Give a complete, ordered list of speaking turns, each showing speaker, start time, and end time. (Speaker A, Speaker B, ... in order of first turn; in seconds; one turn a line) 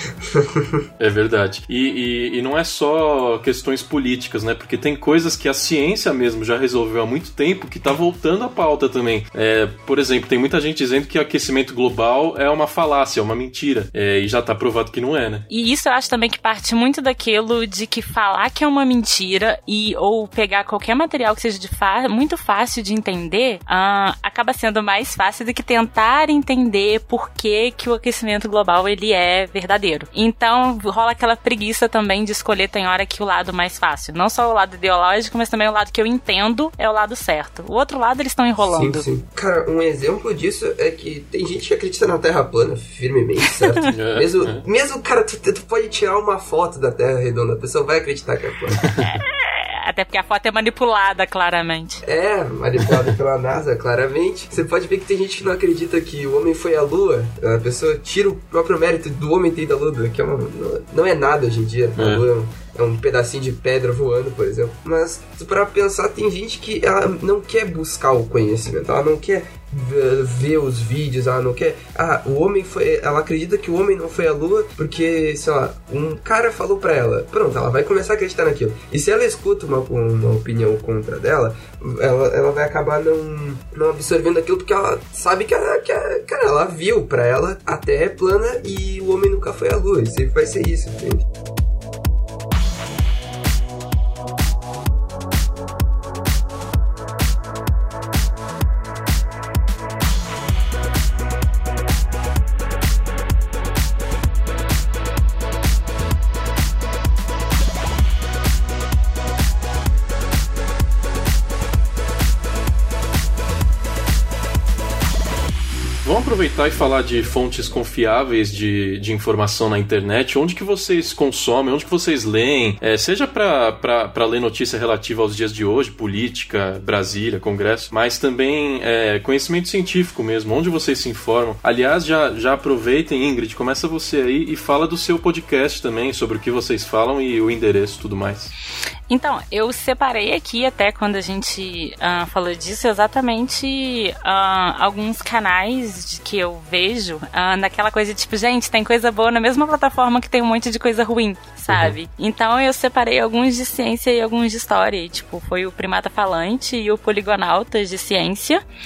Speaker A: 0.2-0.8
Speaker B: 1.0-15.4
Speaker C: 15.5-39.1
Speaker A: 38.6-48.8
Speaker B: 43.9-44.6
Speaker B: 48.8-49.2
Speaker C: 49.0-52.0
Speaker A: 52.0-91.2
Speaker B: 62.0-62.2
Speaker B: 116.0-138.5
Speaker C: 139.1-158.6
Speaker B: 151.7-151.9